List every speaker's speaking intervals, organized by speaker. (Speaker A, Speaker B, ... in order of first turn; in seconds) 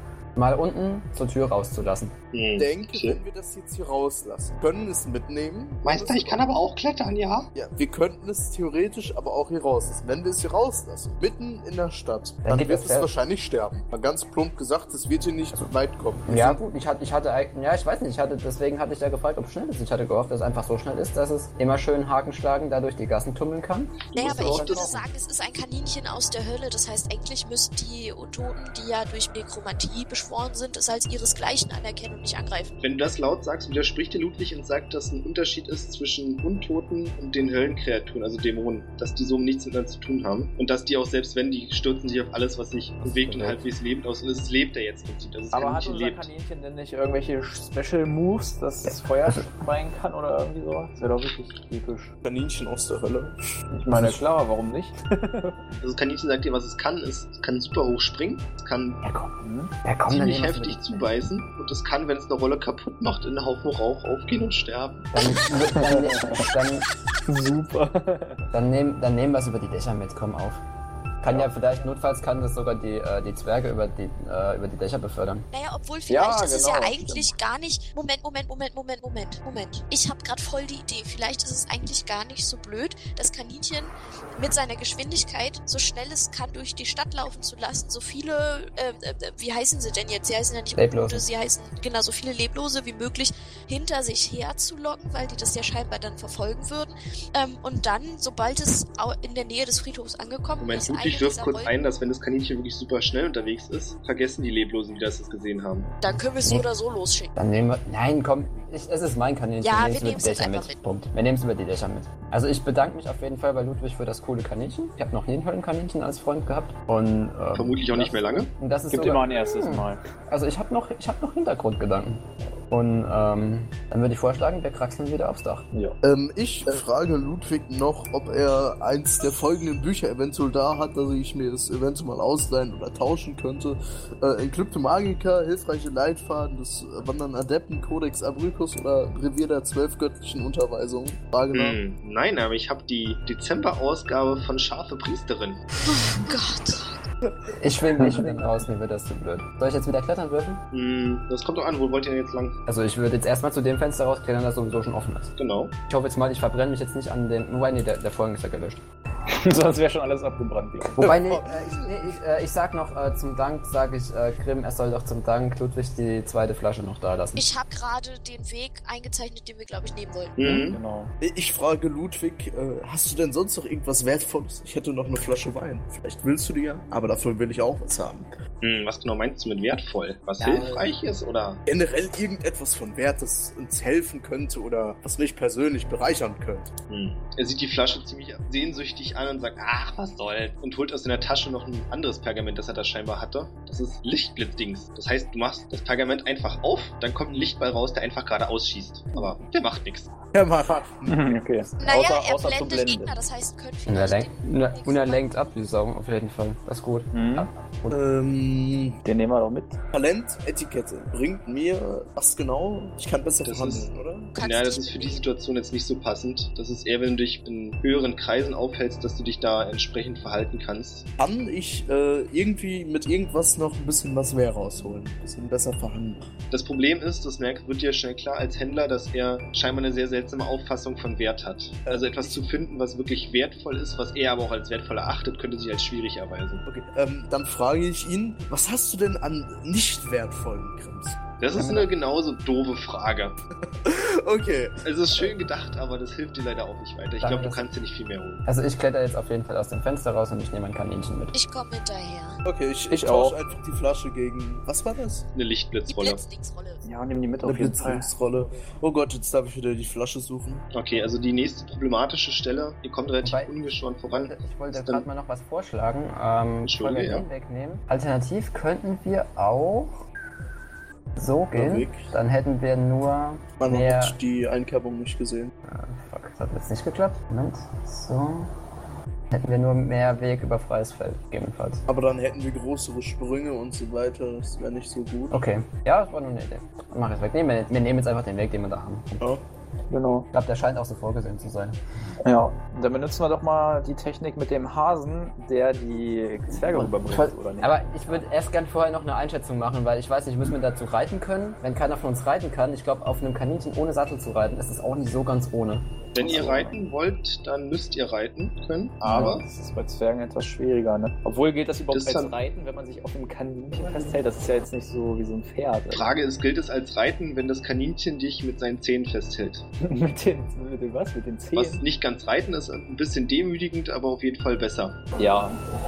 Speaker A: 0.3-2.1, 12.4-13.1, 16.3-25.0, 43.0-43.6, 48.9-49.5, 53.9-54.2, 59.0-61.0, 65.1-66.9, 68.5-70.6, 71.2-75.5, 90.7-91.2, 106.1-106.7, 107.4-125.7, 147.5-150.6, 152.7-155.3, 155.9-158.8, 161.0-167.4, 203.9-208.0, 241.5-241.9, 247.2-247.7, 248.5-251.3, 263.2-270.0, 271.2-274.2, 275.7-278.5, 279.3-281.8, 285.3-289.2, 290.3-291.8, 296.5-306.1, 313.8-314.2
Speaker B: 2.3-3.2, 5.8-7.5, 24.2-24.9, 32.8-46.3, 55.8-59.0, 60.1-65.1, 100.6-105.9, 117.5-118.5, 141.5-145.6, 150.7-152.6, 155.4-155.7, 170.4-170.8, 178.6-181.6, 186.9-200.1, 213.4-213.9, 214.4-221.1, 226.5-236.6, 241.4-243.4, 244.8-248.4, 255.3-256.2, 260.7-265.1, 266.6-267.3, 306.1-309.4, 311.9-312.3, 315.9-319.6, 321.5-325.0
Speaker C: 2.6-6.4, 7.5-16.6, 52.2-53.4, 126.0-141.8, 161.0-162.1, 171.2-178.3, 180.4-180.9, 181.7-186.7, 200.3-201.4, 207.9-209.0, 209.9-214.3, 221.2-226.3, 231.9-232.4, 236.7-241.2, 243.8-245.3, 252.4-255.3, 257.4-260.7, 271.5-272.1, 273.6-275.5, 281.9-285.4
Speaker D: 24.1-32.7, 75.5-101.7, 106.0-107.3, 109.6-110.8, 145.8-146.9, 167.3-170.4, 201.8-205.3, 214.3-215.2, 251.3-252.4, 255.9-256.8
Speaker E: 24.3-24.9, 45.5-52.1, 53.7-55.7, 59.4-59.7, 65.5-66.5, 67.2-68.5, 76.1-77.3, 118.9-120.0, 148.0-148.3, 159.3-161.1, 170.4-171.1, 201.1-203.2, 207.1-207.5, 209.0-209.8, 252.9-253.4, 256.8-258.1, 289.9-290.3, 292.2-298.2, 306.2-306.8, 309.0-316.1, 319.8-321.8, 325.2-325.6